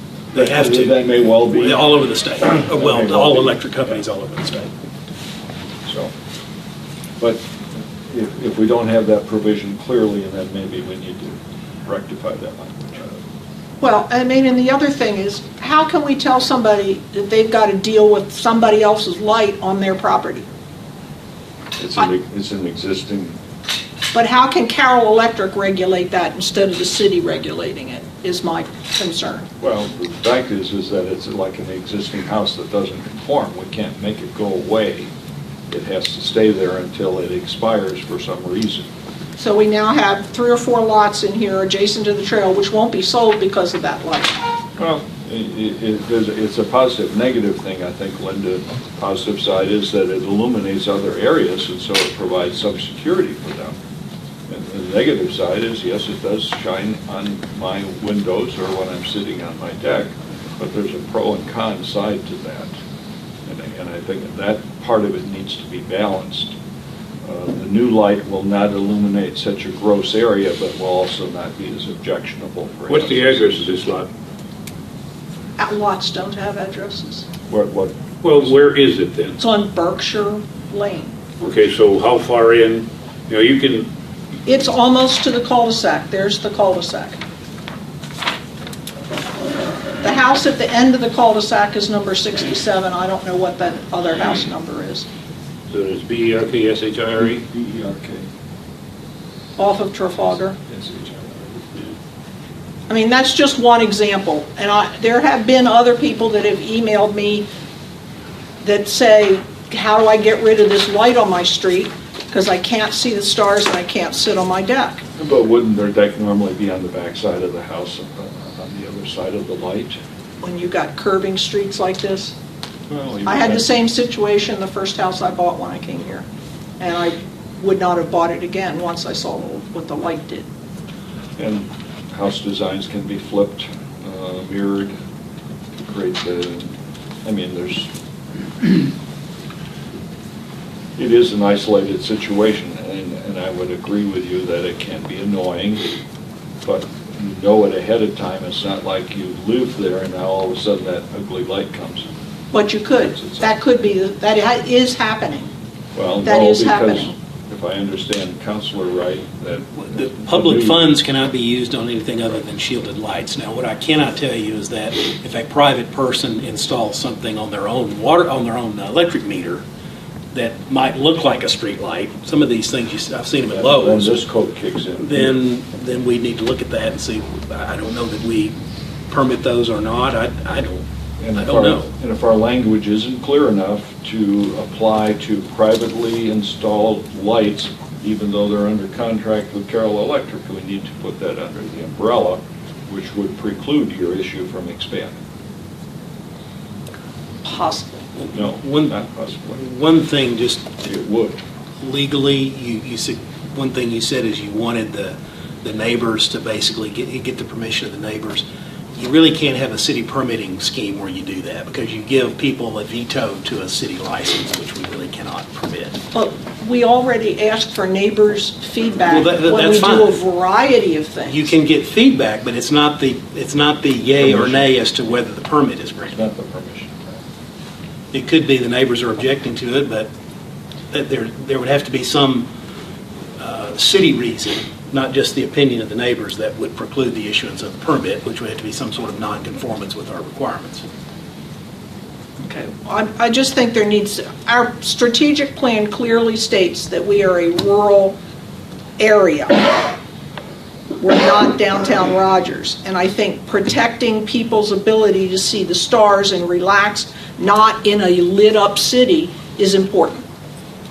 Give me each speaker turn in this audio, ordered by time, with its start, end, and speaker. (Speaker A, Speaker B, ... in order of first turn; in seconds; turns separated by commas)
Speaker A: 0.3-4.7, Speaker B: 0.3-4.0, Speaker B: 5.9-6.1, Speaker B: 8.1-13.2, Speaker C: 13.8-20.5, Speaker B: 21.8-23.4, Speaker C: 24.1-29.5, Speaker B: 29.6-35.1, Speaker B: 35.7-38.9, Speaker C: 39.4-44.4, Speaker B: 44.8-53.8, Speaker B: 54.5-62.8, Speaker B: 63.5-66.6, Speaker B: 67.2-73.8, Speaker D: 72.9-74.0, Speaker C: 75.6-77.3, Speaker B: 77.5-78.0, Speaker D: 78.2-79.4, Speaker C: 79.4-81.2, Speaker D: 81.4-83.9, Speaker C: 84.5-87.2, Speaker C: 90.0-95.1, Speaker D: 95.7-97.4, Speaker B: 97.2-98.3, Speaker C: 99.6-100.6, Speaker B: 100.7-101.6, Speaker C: 102.9-107.5, Speaker C: 108.6-115.0, Speaker B: 115.2-120.0, Speaker C: 120.4-122.4, Speaker B: 122.9-123.7, Speaker C: 123.2-126.2, Speaker C: 126.8-130.5, Speaker B: 131.4-135.0, Speaker B: 135.8-137.9, Speaker B: 141.0-145.8, Speaker B: 146.6-152.1, Speaker C: 152.5-155.5, Speaker B: 153.1-153.4, Speaker B: 155.9-160.9, Speaker C: 156.2-157.2, Speaker A: 159.8-169.6, Speaker A: 170.3-174.2, Speaker B: 173.5-175.4, Speaker A: 175.0-178.6, Speaker A: 179.1-181.9, Speaker B: 181.2-195.2, Speaker C: 197.4-198.1, Speaker A: 198.2-199.0, Speaker B: 198.3-199.6, Speaker A: 199.5-200.8, Speaker B: 200.8-201.4, Speaker A: 201.8-216.0, Speaker C: 216.1-221.5, Speaker A: 219.1-220.2, Speaker A: 221.3-226.2, Speaker B: 224.2-224.8, Speaker B: 226.1-227.1, Speaker A: 228.1-230.1, Speaker A: 230.9-232.5, Speaker A: 233.4-240.8, Speaker C: 242.4-248.2, Speaker C: 249.0-250.0, Speaker C: 251.0-260.3